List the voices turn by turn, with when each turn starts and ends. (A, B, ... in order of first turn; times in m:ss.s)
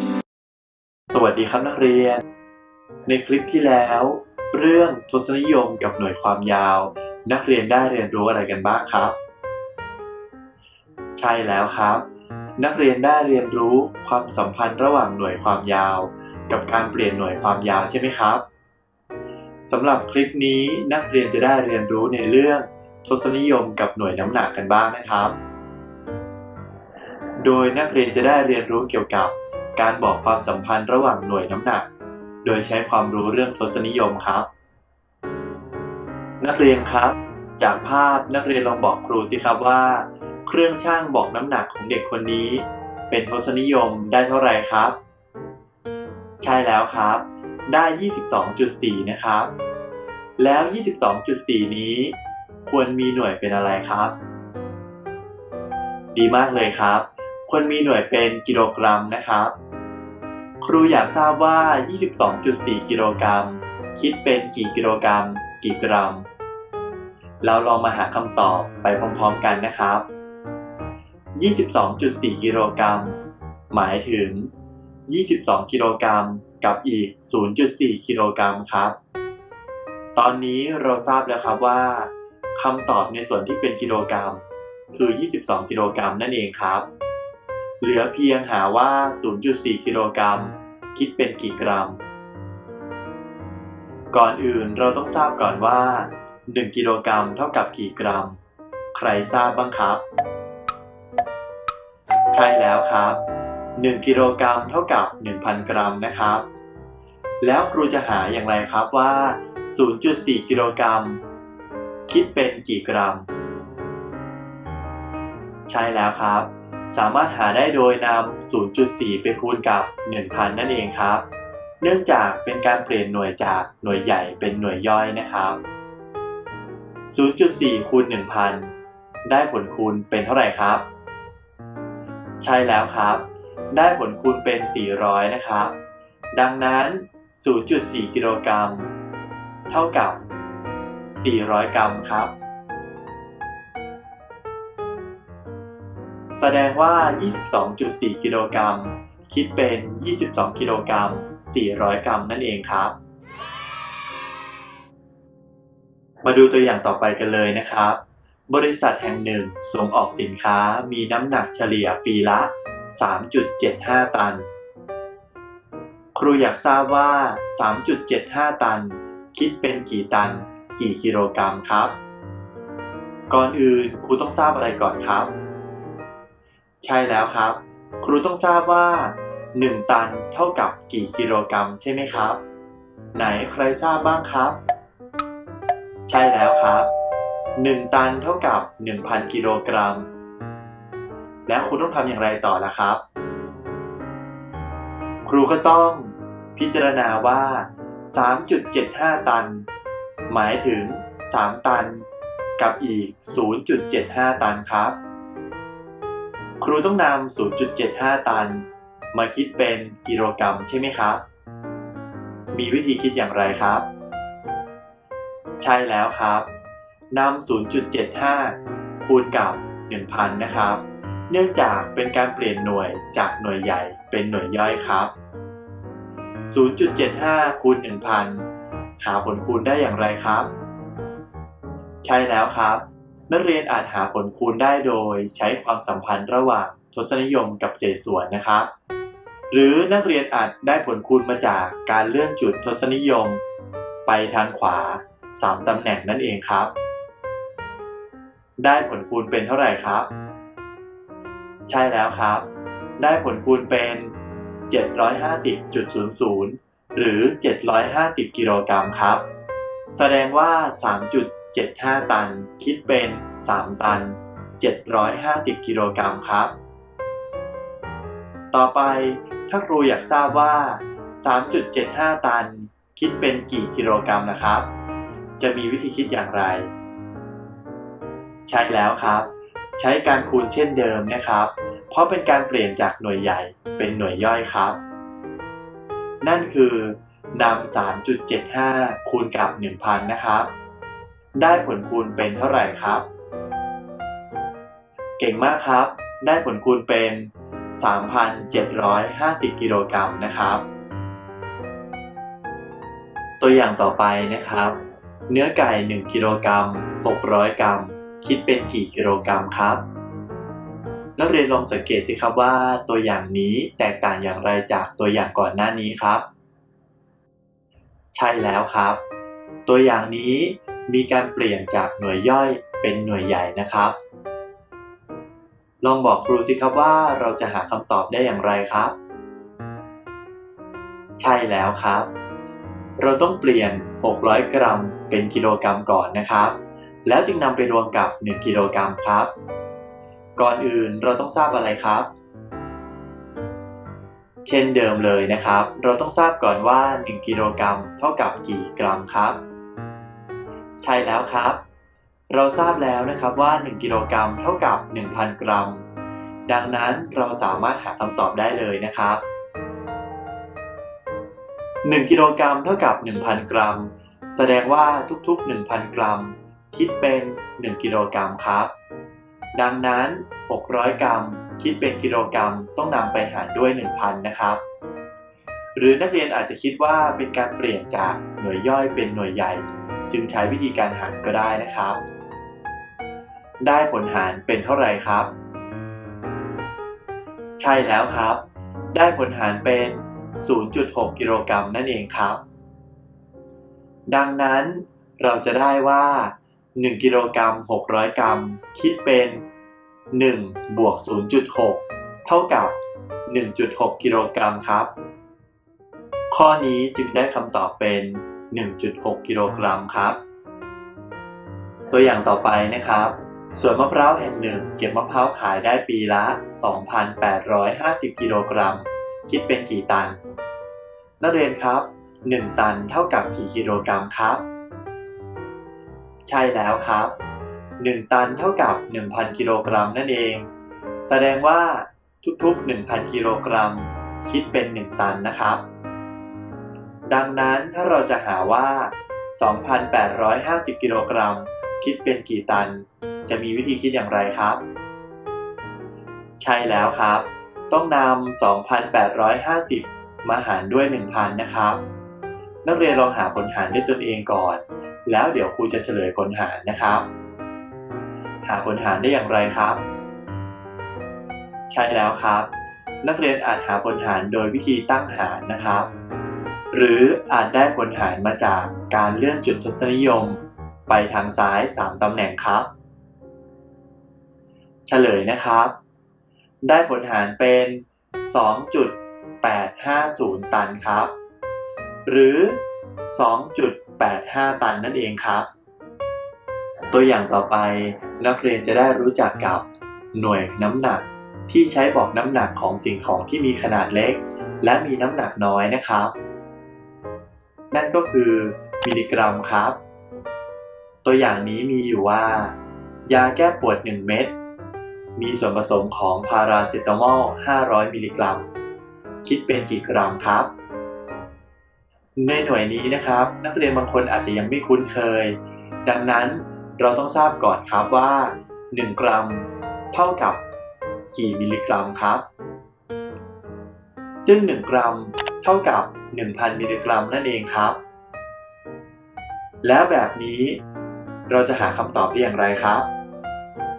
0:01.1-0:02.2 A
0:03.1-0:09.2 A
0:11.2-0:12.0 A
0:12.6-0:18.4 A
0:19.6-0:25.4 A
0:27.4-0:31.8 A
0:32.4-0:34.5 A
0:36.4-0:45.0 A
0:46.4-0:49.5 A
0:50.4-0:54.2 A
0:56.1-0:59.5 A
1:00.6-1:06.3 A
1:07.4-1:10.1 A
1:11.4-1:13.2 A
1:13.7-1:14.5 A
1:15.1-1:18.9 A
1:20.1-1:26.9 A
1:27.8-1:32.0 A
1:34.1-1:38.4 A
1:38.9-1:40.0 A
1:42.3-1:43.2 A
1:43.8-1:46.5 A
1:47.4-1:51.2 A
1:52.1-1:53.3 A
1:55.7-2:01.2 A
2:01.8-2:05.6 A
2:07.1-2:08.7 A
2:09.2-2:10.8 A
2:12.4-2:15.7 A
2:16.3-2:18.9 A
2:19.7-2:20.2 A
2:21.1-2:22.3 A
2:26.3-2:32.9 A
2:36.2-2:44.5 A
2:46.1-2:52.0 A
2:53.3-2:55.3 A
2:56.8-3:02.4 A
3:03.1-3:04.6 A
3:06.1-3:06.9 A
3:07.6-3:10.1 A
3:11.5-3:13.0 A
3:15.2-3:19.7 A
3:20.3-3:22.0 A
3:22.6-3:25.0 A
3:26.6-3:31.2 A
3:32.5-3:33.9 A
3:35.6-3:36.5 A
3:37.1-3:45.1 A
3:46.5-3:48.4 A
3:49.0-3:50.5 A
3:52.0-3:58.7 A
3:59.5-4:03.4 A
4:04.0-4:06.7 A
4:08.6-4:10.1 A
4:11.7-4:12.4 A
4:13.0-4:14.1 A
4:14.7-4:19.2 A
4:19.9-4:26.5 A
4:28.5-4:34.7 A
4:35.4-4:36.7 A
4:38.5-4:44.8 A
4:46.2-4:50.5 A
4:51.4-4:53.0 A
4:55.2-5:00.6 A
5:03.4-5:04.8 A
5:05.3-5:09.8 A
5:11.2-5:16.2 A
5:18.1-5:19.0 A
5:19.6-5:24.0 A
5:25.8-5:28.9 A
5:31.2-5:32.1 A
5:33.0-5:39.3 A
5:40.4-5:42.1 A
5:44.4-5:49.4 A
5:50.8-5:51.6 A
5:52.3-5:55.8 A
5:56.5-5:59.2 A
6:01.8-6:08.7 A
6:09.5-6:14.6 A
6:15.8-6:22.0 A
6:23.6-6:25.3 A
6:27.6-6:28.4 A
6:28.9-6:32.4 A
6:34.1-6:39.4 A
6:40.1-6:44.9 A
6:46.3-6:50.2 A
6:51.9-7:00.2 A
7:01.2-7:04.4 A
7:06.2-7:07.2 A
7:07.8-7:10.5 A
7:11.0-7:15.6 A
7:17.1-7:24.6 A
7:26.4-7:31.8 A
7:32.6-7:37.1 A
7:38.4-7:39.8 A
7:41.7-7:42.5 A
7:43.0-7:45.9 A
7:46.7-7:52.7 A
7:54.9-7:55.7 A
7:56.6-8:01.1 A
8:02.0-8:05.5 A
8:06.9-8:16.1 A
8:17.7-8:19.8 A
8:21.0-8:22.5 A
8:23.1-8:24.3 A
8:25.2-8:28.5 A
8:29.2-8:30.5 A
8:32.2-8:35.3 A
8:35.8-8:40.4 A
8:41.1-8:42.2 A
8:44.2-8:47.8 A
8:49.6-8:50.6 A
8:51.3-8:52.9 A